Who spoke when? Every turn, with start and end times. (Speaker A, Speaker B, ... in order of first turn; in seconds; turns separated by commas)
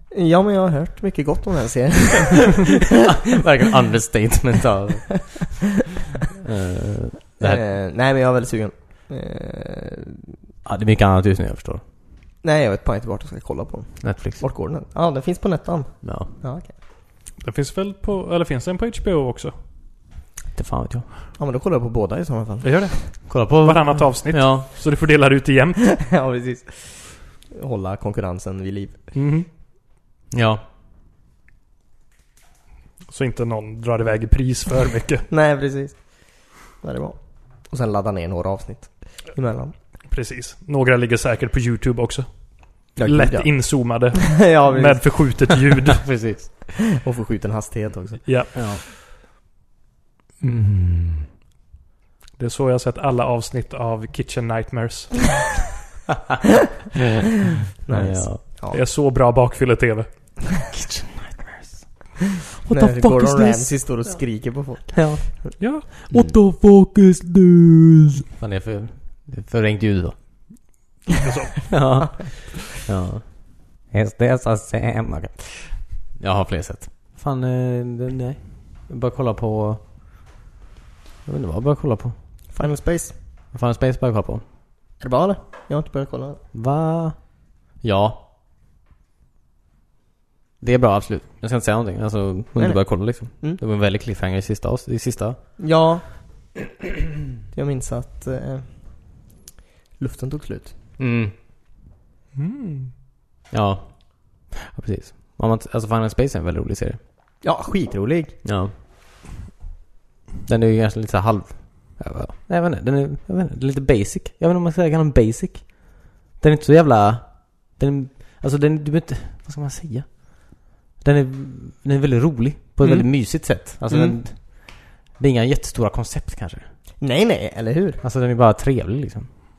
Speaker A: 0.1-2.7, Speaker B: 3.1-5.7, Speaker B: 6.3-7.7, Speaker A: 7.4-10.3, Speaker B: 10.6-11.8, Speaker A: 12.4-16.7, Speaker B: 14.0-14.4, Speaker B: 16.0-16.3, Speaker C: 17.4-19.5, Speaker B: 20.5-21.1, Speaker A: 21.4-23.0, Speaker C: 22.6-26.0, Speaker B: 23.3-24.7, Speaker A: 26.0-29.0, Speaker C: 29.1-29.5, Speaker B: 30.3-30.6, Speaker C: 33.1-35.3, Speaker A: 35.3-39.7, Speaker C: 40.1-46.0, Speaker A: 43.0-45.6, Speaker B: 46.0-46.7, Speaker A: 47.0-48.3, Speaker C: 48.3-48.8, Speaker B: 48.5-48.8, Speaker B: 50.4-51.3, Speaker C: 52.4-55.6, Speaker A: 57.9-58.8, Speaker B: 57.9-58.4, Speaker C: 58.6-60.4, Speaker B: 60.7-61.9, Speaker B: 62.6-64.3, Speaker A: 62.7-65.6, Speaker B: 64.9-70.5, Speaker C: 65.6-65.9, Speaker C: 71.2-72.2, Speaker B: 71.7-79.8, Speaker A: 72.0-72.5, Speaker B: 81.3-82.2, Speaker A: 82.5-83.2, Speaker B: 83.5-84.4, Speaker A: 85.0-86.4, Speaker B: 86.5-88.2, Speaker B: 90.6-95.4, Speaker A: 92.6-93.6, Speaker A: 95.6-96.4, Speaker A: 97.5-99.3, Speaker A: 100.0-100.8, Speaker B: 101.0-101.3, Speaker C: 102.4-102.9, Speaker B: 103.5-107.0, Speaker A: 107.4-108.4, Speaker B: 108.4-108.7, Speaker B: 110.5-126.7, Speaker A: 122.8-124.2, Speaker A: 127.0-128.0, Speaker B: 128.0-129.3